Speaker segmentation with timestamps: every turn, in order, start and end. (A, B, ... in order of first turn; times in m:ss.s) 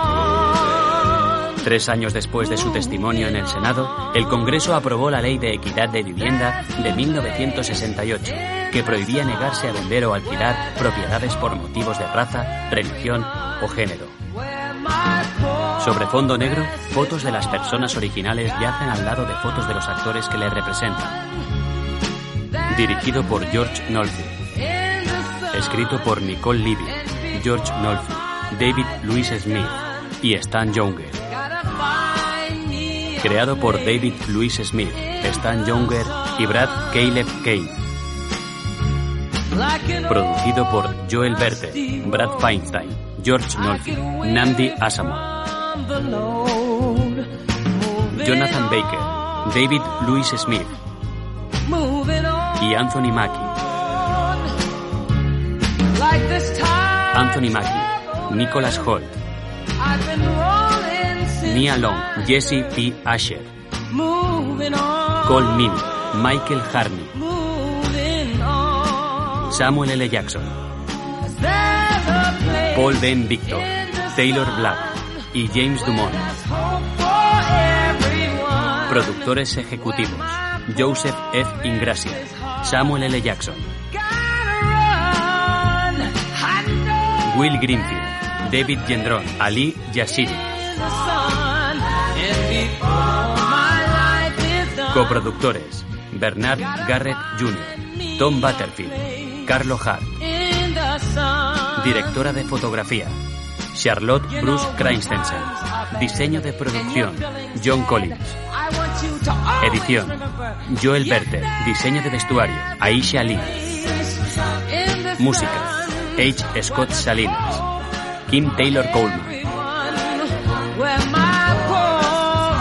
0:01.6-0:14.2 A
0:15.7-0:21.2 A
0:22.7-0:24.4 A
0:25.5-0:31.2 A
0:33.2-0:37.8 A
0:40.0-0:45.3 A
0:48.1-0:50.8 A
0:52.5-0:53.6 A
0:57.0-0:59.1 A
1:01.3-1:03.5 A
1:05.2-1:07.2 A
1:09.4-1:10.6 A
1:12.6-1:16.4 A
1:18.8-1:23.7 A
1:27.2-1:30.6 A
1:34.8-1:40.2 A
1:41.7-1:43.2 A
1:43.7-1:48.4 A
1:49.6-1:53.9 A
1:55.1-1:57.6 A
1:58.3-1:59.4 A